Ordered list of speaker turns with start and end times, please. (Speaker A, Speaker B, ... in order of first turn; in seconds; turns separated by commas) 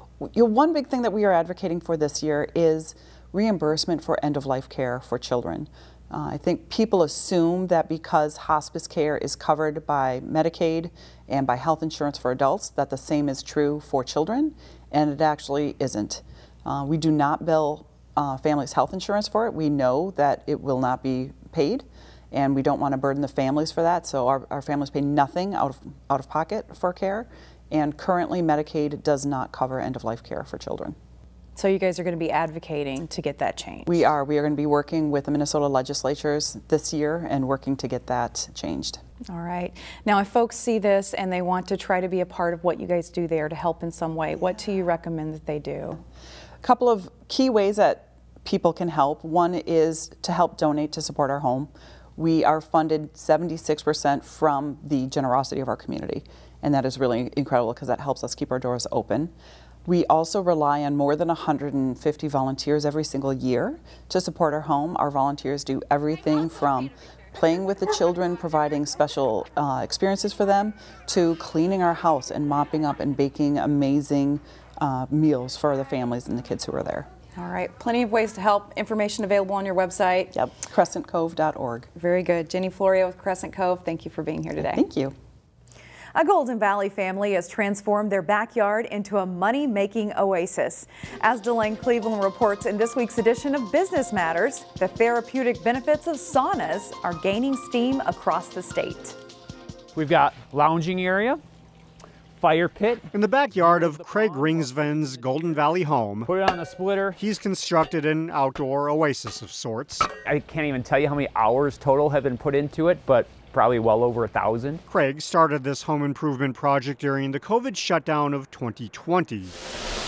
Speaker A: 0.2-30.9, Speaker B: 31.6-34.0, Speaker A: 33.9-39.0, Speaker B: 39.3-46.0, Speaker A: 46.6-59.3, Speaker A: 59.8-77.1, Speaker B: 77.3-80.3, Speaker A: 80.3-81.9, Speaker B: 81.9-84.8, Speaker A: 84.6-85.1, Speaker B: 86.2-99.2, Speaker C: 99.9-101.4, Speaker C: 102.4-103.0, Speaker D: 103.1-106.3, Speaker C: 106.3-107.2, Speaker D: 107.2-110.1, Speaker C: 110.2-114.8, Speaker D: 114.9-119.5